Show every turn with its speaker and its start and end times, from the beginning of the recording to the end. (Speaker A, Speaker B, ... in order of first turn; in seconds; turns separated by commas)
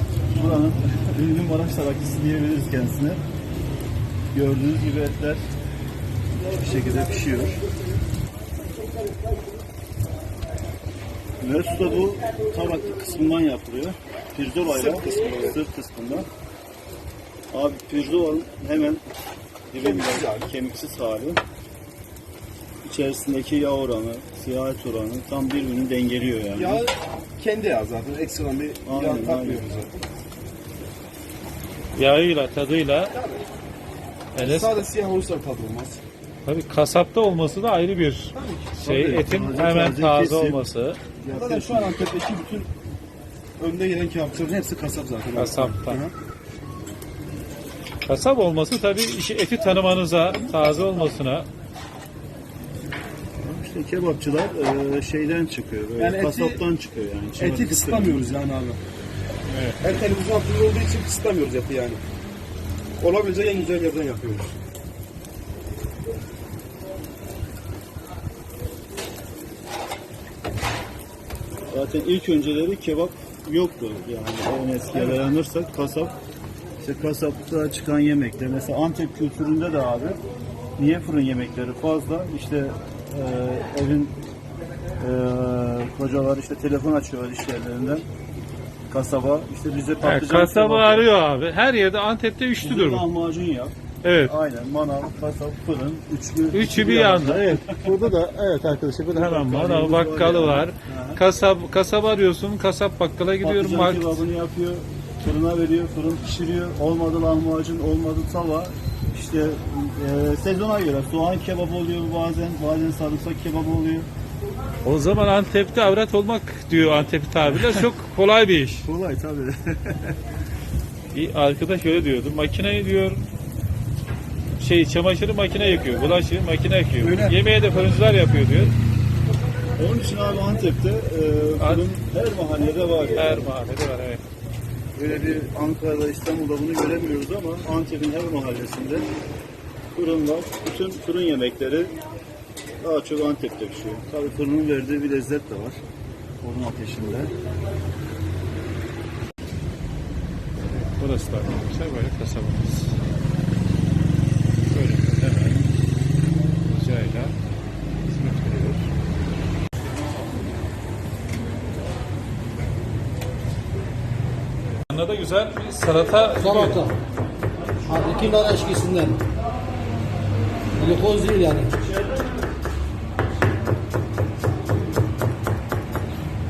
Speaker A: 0.3-3.2, Speaker A: 4.3-5.5, Speaker A: 6.5-7.6, Speaker A: 11.4-16.3, Speaker B: 14.7-15.6, Speaker A: 17.5-19.0, Speaker A: 19.7-21.4, Speaker B: 19.8-20.5, Speaker A: 22.8-26.8, Speaker B: 26.5-29.9, Speaker A: 28.8-29.6, Speaker C: 31.9-33.1, Speaker B: 33.1-33.4, Speaker C: 34.3-34.8, Speaker B: 34.4-36.0, Speaker C: 36.4-41.0, Speaker B: 38.3-39.2, Speaker A: 39.1-40.6, Speaker A: 41.2-42.0, Speaker B: 41.2-42.7, Speaker B: 43.6-46.1, Speaker C: 45.3-46.0, Speaker C: 48.0-51.5, Speaker A: 53.4-58.3, Speaker B: 56.0-56.6, Speaker B: 57.4-58.8, Speaker C: 59.5-59.8, Speaker B: 59.8-62.0, Speaker B: 63.0-64.5, Speaker A: 71.7-76.1, Speaker A: 76.8-80.2, Speaker A: 80.8-84.2, Speaker A: 85.0-88.0, Speaker A: 88.9-91.1, Speaker C: 90.0-93.0, Speaker A: 92.6-97.7, Speaker C: 94.0-94.3, Speaker C: 96.5-104.2, Speaker A: 99.1-101.2, Speaker A: 103.4-114.1, Speaker C: 114.8-118.8, Speaker A: 118.8-120.0, Speaker C: 121.1-123.2, Speaker C: 124.6-128.7, Speaker B: 127.0-127.4, Speaker A: 129.8-133.5, Speaker C: 131.6-131.8, Speaker C: 133.1-134.2, Speaker A: 134.9-139.1, Speaker A: 139.9-141.9, Speaker A: 142.8-145.8, Speaker A: 146.4-147.3, Speaker C: 150.7-152.9, Speaker C: 154.6-155.6, Speaker C: 156.7-157.3, Speaker C: 158.1-158.8, Speaker C: 164.9-166.8, Speaker D: 166.4-166.9, Speaker D: 167.8-169.2, Speaker D: 170.8-171.8